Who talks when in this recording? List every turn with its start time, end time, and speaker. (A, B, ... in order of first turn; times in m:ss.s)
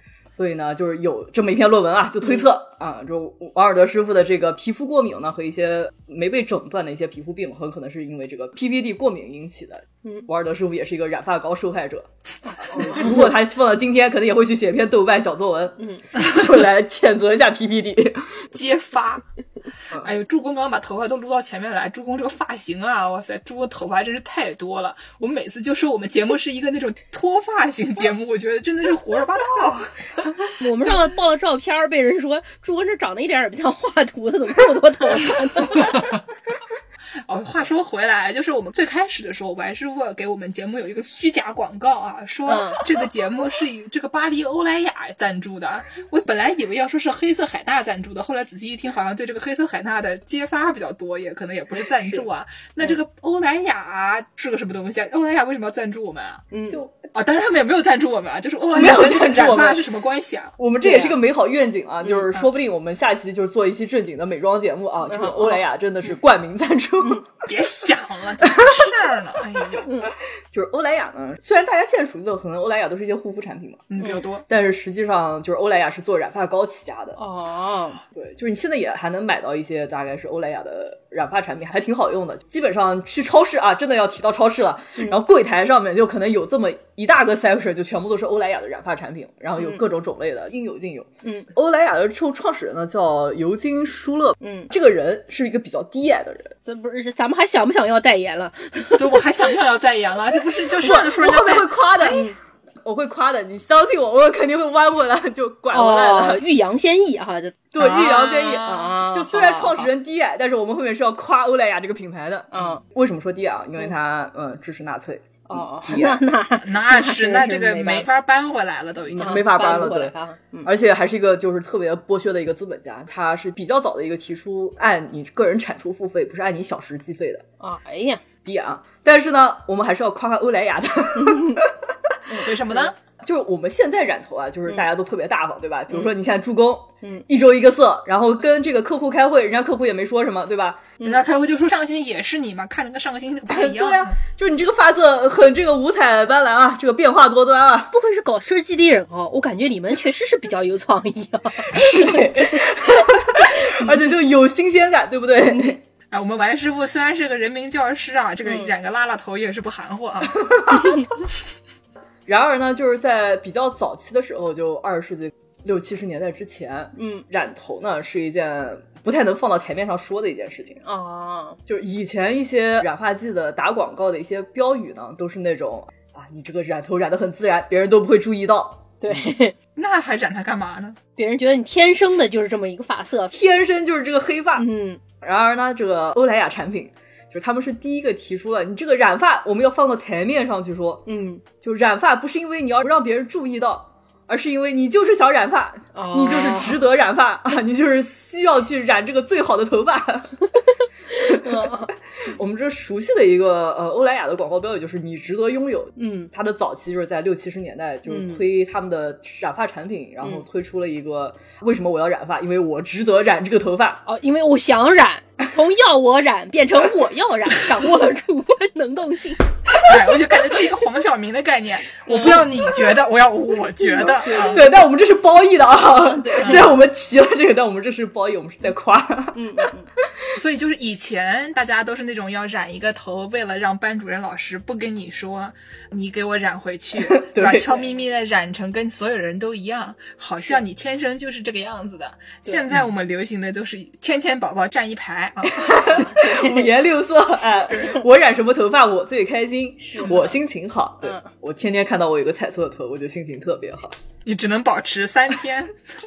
0:00.3-0:18.5 A
0:12.6-0:13.3 B
0:15.8-0:16.0 B
0:18.5-0:19.2 C
0:19.9-0:30.3 C
0:30.6-0:36.0 B
0:37.2-0:56.4 C
0:42.4-0:42.8 B
0:51.9-0:52.2 A
0:56.5-0:56.8 B
0:56.7-0:57.1 A
0:57.1-1:00.5 C
0:58.7-0:59.8 A
1:00.6-1:07.3 A
1:00.8-1:01.2 B
1:05.1-1:05.6 B
1:07.4-1:09.9 C
1:08.4-1:08.9 A
1:09.8-1:10.1 B
1:10.5-1:17.2 A
1:13.9-1:14.4 C
1:17.2-1:18.0 B
1:18.1-1:36.5 A
1:29.6-1:29.8 B
1:34.4-1:34.7 B
1:36.6-1:39.2 B
1:39.0-1:41.7 C
1:40.8-1:42.3 A
1:42.0-1:42.4 B
1:42.8-1:46.4 A
1:45.7-1:49.9 B
1:47.7-1:56.2 A
1:47.8-1:48.8 C
1:52.5-1:52.8 B
1:55.5-1:58.0 B
1:56.6-1:59.4 C
1:59.1-2:00.1 A
1:59.2-2:00.7 B
2:00.6-2:07.4 A
2:07.6-2:08.2 B
2:08.4-2:11.9 A
2:11.2-2:11.6 B
2:12.3-2:12.9 B
2:12.4-2:12.9 C
2:13.2-2:20.9 A
2:21.0-2:24.2 C
2:23.5-2:27.9 A
2:27.9-2:33.9 B
2:31.6-2:35.8 A
2:36.1-2:41.0 C
2:38.4-2:38.7 B
2:40.4-2:40.7 A
2:42.3-2:50.8 A
2:47.0-2:47.2 B
2:50.8-2:51.6 B
2:51.6-2:59.3 A
2:59.0-2:59.5 B
2:59.8-3:01.0 C
3:01.2-3:03.3 B
3:03.3-3:04.7 A
3:04.6-3:05.0 B
3:05.2-3:11.1 A
3:11.0-3:11.4 B
3:11.6-3:20.5 A
3:15.9-3:16.8 B
3:21.1-3:21.9 B
3:21.1-3:34.0 A
3:26.0-3:26.3 B
3:28.1-3:28.4 B
3:34.0-3:40.0 B
3:39.8-3:44.7 C
3:42.0-3:42.5 B
3:43.8-3:44.8 B
3:44.4-3:49.4 A
3:45.9-3:46.7 B
3:46.4-3:46.7 C
3:49.3-3:49.9 B
3:50.3-4:06.0 C
3:57.0-3:57.7 A
4:05.5-4:14.0 A
4:05.8-4:06.7 B
4:09.9-4:10.3 B
4:11.0-4:11.3 B
4:14.2-4:15.7 C